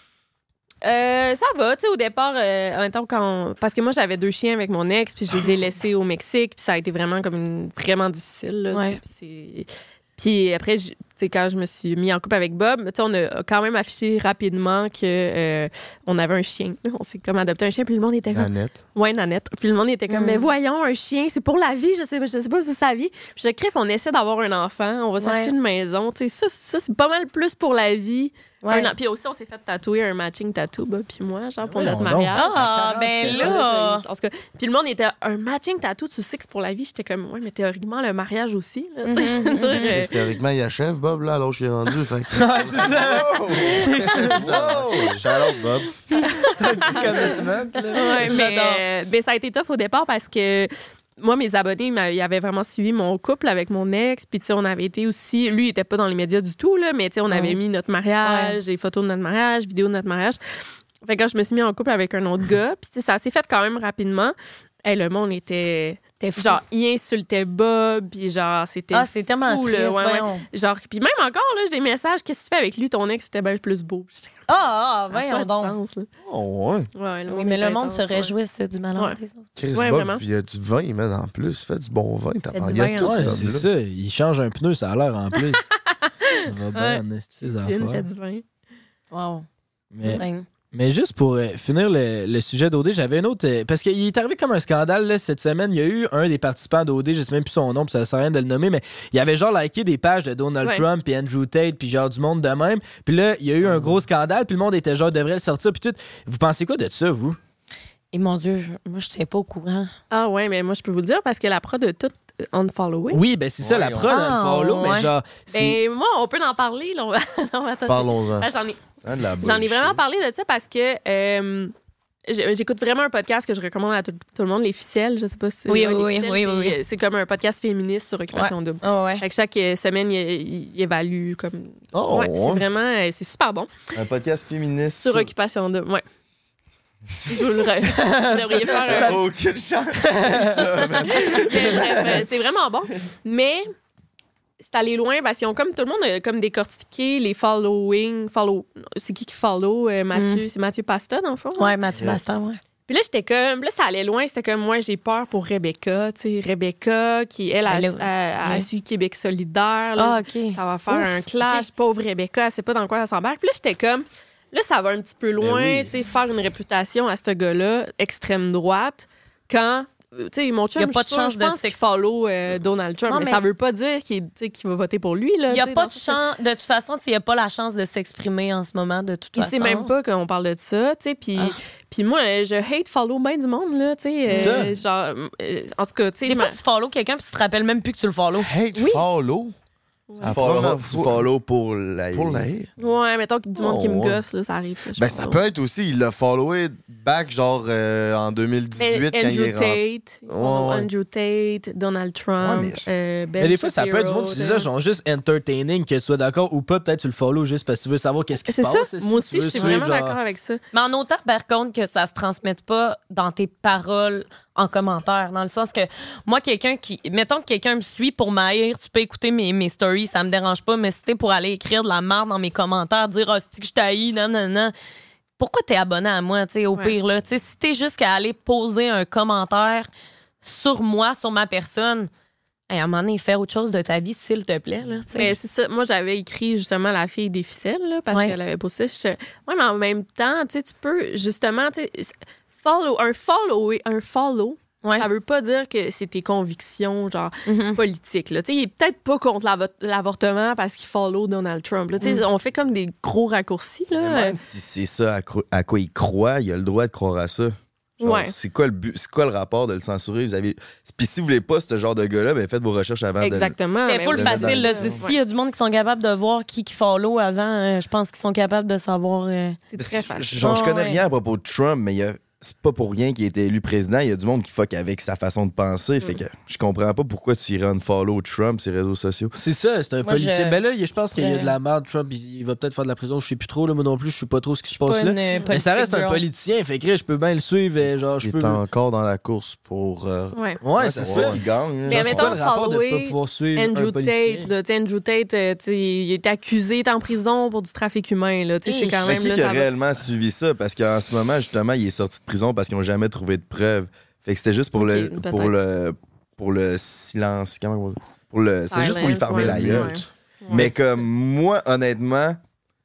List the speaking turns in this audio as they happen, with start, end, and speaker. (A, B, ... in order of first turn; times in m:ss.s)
0:00.8-0:40.2 A
0:08.7-0:09.0 B
0:18.3-0:18.8 C
0:20.1-0:20.5 B
0:25.2-0:25.5 B
0:28.6-0:28.9 B
0:31.6-0:33.6 D
0:32.4-0:34.0 B
0:39.0-0:40.0 B
0:39.8-0:42.7 C
0:42.3-0:44.4 D
0:42.8-0:45.3 E
0:43.5-0:45.9 C
0:46.1-0:46.5 B
0:46.4-0:47.4 A
0:46.6-0:48.3 D
0:47.9-0:48.8 B
0:48.0-1:00.4 A
0:57.3-0:57.6 B
0:58.2-0:58.6 B
1:01.0-1:16.1 A
1:06.2-1:06.6 B
1:08.9-1:10.4 B
1:14.5-1:15.8 B
1:16.2-1:16.9 C
1:17.0-1:18.3 A
1:17.3-1:19.5 B
1:19.6-1:23.7 C
1:19.7-1:20.2 A
1:22.6-1:23.3 A
1:23.0-1:25.6 D
1:26.3-1:28.4 A
1:26.4-1:28.1 D
1:29.1-1:29.4 B
1:29.9-1:47.4 D
1:30.1-1:30.4 B
1:48.1-1:49.9 B
1:50.1-1:53.2 A
1:53.1-1:55.8 D
1:53.6-1:54.1 E
1:54.1-1:55.1 B
1:55.5-1:58.9 A
1:57.9-1:58.5 C
1:59.0-2:00.0 E
1:59.4-2:01.7 A
2:02.3-2:13.7 A
2:05.7-2:06.8 B
2:08.3-2:09.2 B
2:11.9-2:12.6 C
2:13.9-2:15.3 E
2:14.8-2:16.0 A
2:17.3-2:19.2 A
2:17.9-2:19.2 D
2:18.7-2:22.2 E
2:20.0-2:21.0 D
2:21.0-2:23.7 A
2:24.6-2:31.8 A
2:30.1-2:30.4 B
2:31.6-2:32.6 B
2:32.9-2:56.2 A
2:37.7-2:38.7 B
2:40.0-2:41.7 B
2:45.4-2:45.8 E
2:50.8-2:51.8 B
2:53.1-2:53.4 B
2:55.5-2:59.9 B
2:59.4-3:06.6 A
3:04.3-3:04.8 D
3:04.3-3:04.7 B
3:06.3-3:08.5 B
3:08.4-3:09.5 C
3:08.8-3:09.0 A
3:10.1-3:10.6 A
3:10.2-3:11.3 C
3:10.2-3:12.5 E
3:12.1-3:12.7 C
3:12.8-3:15.4 A
3:13.6-3:14.2 C
3:15.0-3:20.9 C
3:18.8-3:24.7 A
3:22.4-3:22.9 E
3:23.4-3:30.2 D
3:28.5-3:30.6 A
3:29.5-3:29.8 B
3:30.7-3:44.7 B
3:45.4-3:49.9 B
3:50.4-3:52.1 B
3:52.7-3:55.4 B
3:55.1-4:14.4 A
4:07.5-4:07.8 B
4:13.9-4:23.6 E
4:18.0-4:18.3 A
4:23.2-4:25.2 A
4:23.8-4:29.6 B
4:24.1-4:25.0 E
4:29.7-4:30.7 A
4:29.8-4:39.4 E
4:30.4-4:31.0 B
4:39.4-4:48.6 D
4:40.0-4:40.6 B
4:41.2-4:41.5 B
4:44.8-4:46.2 B
4:48.2-4:50.4 C
4:50.3-4:50.6 A
4:50.6-4:54.5 D
4:50.8-4:52.4 E
4:51.0-4:51.4 C
4:51.9-4:59.7 A
4:58.6-4:59.2 B
4:59.0-5:12.4 E
5:04.8-5:05.6 A
5:08.6-5:10.8 A
5:09.4-5:10.1 C